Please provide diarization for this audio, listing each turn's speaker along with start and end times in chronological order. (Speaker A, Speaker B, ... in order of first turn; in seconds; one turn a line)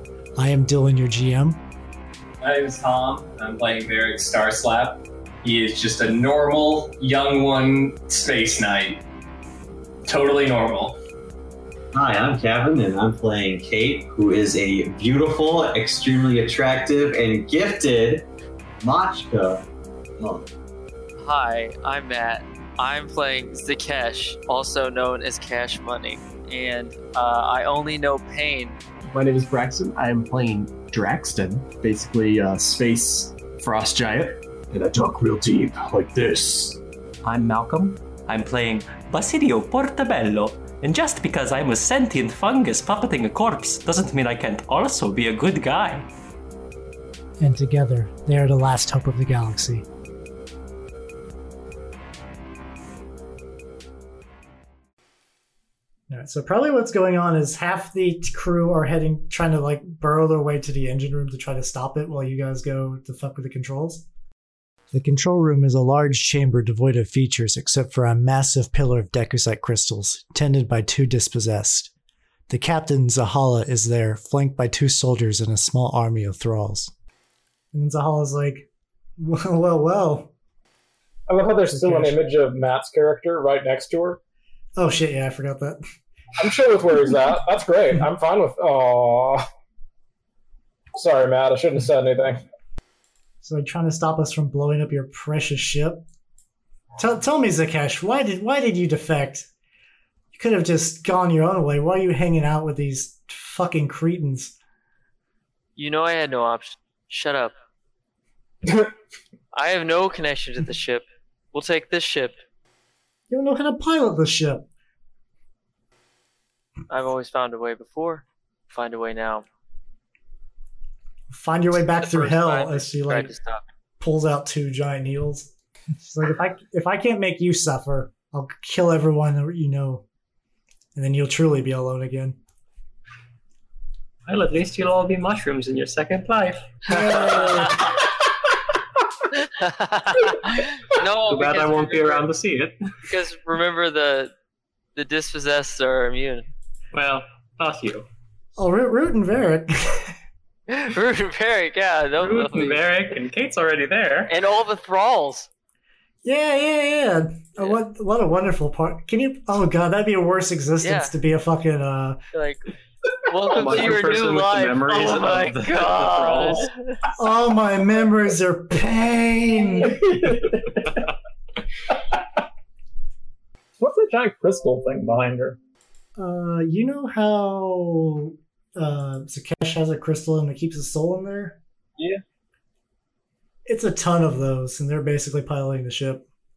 Speaker A: 0.4-1.6
Speaker B: 2.4-9.0
Speaker B: 10.1-11.0
Speaker C: 11.9-18.3
Speaker C: 18.8-19.6
Speaker C: 20.2-20.5
Speaker D: 21.2-28.8
Speaker E: 29.1-36.8
Speaker F: 37.2-46.1
Speaker A: 47.4-49.9
Speaker A: 56.1-64.0
Speaker A: 64.9-71.9
Speaker A: 72.5-76.9
Speaker A: 77.7-78.7
Speaker A: 79.2-80.3
Speaker G: 81.3-84.2
Speaker A: 81.8-82.2
Speaker A: 84.8-85.8
Speaker G: 86.4-89.5
Speaker G: 91.0-92.4
Speaker A: 93.4-96.0
Speaker A: 97.0-99.5
Speaker A: 100.3-104.5
Speaker D: 105.8-107.5
Speaker D: 109.5-112.3
Speaker A: 113.3-114.7
Speaker D: 116.9-119.5
Speaker A: 121.3-123.3
Speaker D: 121.8-123.6
Speaker A: 124.0-130.1
Speaker A: 130.9-132.4
Speaker H: 134.3-138.1
Speaker A: 136.9-137.8
Speaker D: 137.0-137.6
Speaker D: 139.3-142.3
Speaker H: 141.3-142.8
Speaker D: 143.0-144.3
Speaker D: 144.9-146.5
Speaker H: 146.9-148.1
Speaker A: 148.6-150.2
Speaker D: 150.7-152.8
Speaker H: 152.2-154.3
Speaker D: 154.3-155.5
Speaker A: 156.2-162.2
Speaker D: 160.8-161.1
Speaker D: 162.3-162.7
Speaker D: 163.2-167.0
Speaker H: 163.4-166.7
Speaker A: 167.2-170.3
Speaker G: 173.8-175.6
Speaker A: 176.2-181.6
Speaker A: 183.7-186.2